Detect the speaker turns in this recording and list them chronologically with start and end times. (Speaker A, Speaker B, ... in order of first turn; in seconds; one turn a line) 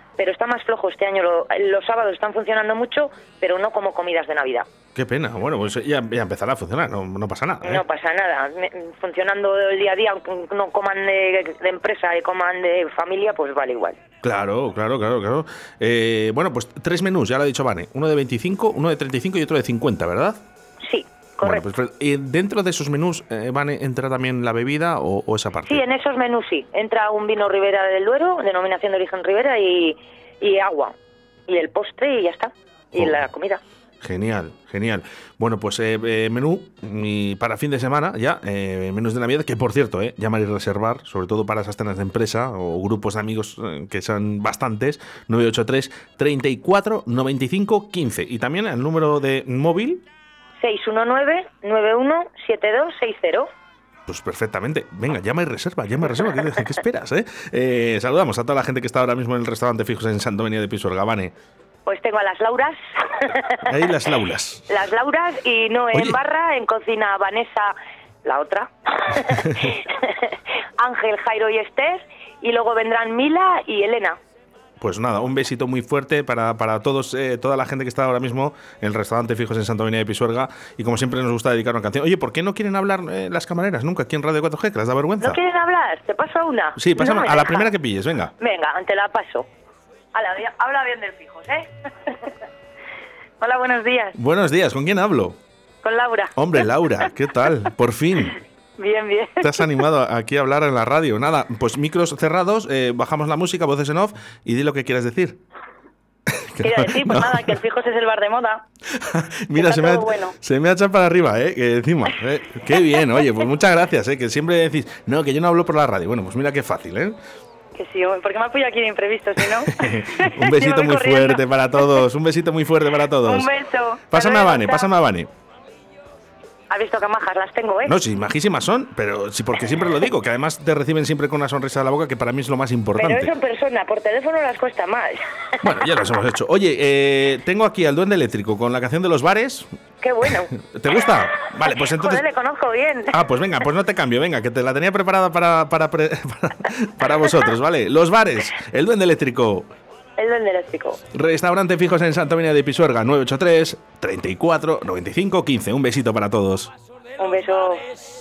Speaker A: 0.2-4.7
Speaker B: 5.0-7.8
Speaker A: 7.6-14.0
Speaker B: 14.2-20.4
Speaker A: 20.8-21.6
Speaker B: 21.4-25.8
Speaker A: 25.7-30.9
Speaker A: 31.5-33.6
Speaker B: 34.0-50.0
Speaker A: 50.6-53.5
Speaker B: 54.1-61.3
Speaker A: 61.9-63.7
Speaker B: 63.6-64.7
Speaker A: 64.7-74.2
Speaker B: 65.9-66.2
Speaker B: 74.8-85.4
Speaker A: 85.2-87.7
Speaker B: 86.8-88.3
Speaker A: 88.4-89.5
Speaker A: 90.1-92.3
Speaker A: 93.4-94.2
Speaker B: 94.2-95.4
Speaker A: 95.8-96.7
Speaker B: 96.4-98.4
Speaker A: 98.8-99.7
Speaker B: 99.4-105.4
Speaker B: 106.3-107.6
Speaker A: 106.6-108.6
Speaker B: 108.9-117.2
Speaker A: 109.6-110.4
Speaker A: 117.8-122.0
Speaker B: 119.6-123.5
Speaker A: 123.2-124.9
Speaker B: 124.1-125.3
Speaker A: 126.7-128.0
Speaker B: 127.9-133.3
Speaker A: 133.0-135.2
Speaker B: 135.6-139.7
Speaker A: 140.0-140.5
Speaker B: 140.2-142.2
Speaker A: 141.6-143.2
Speaker B: 143.1-149.7
Speaker A: 150.2-151.0
Speaker B: 151.1-156.7
Speaker A: 157.2-157.9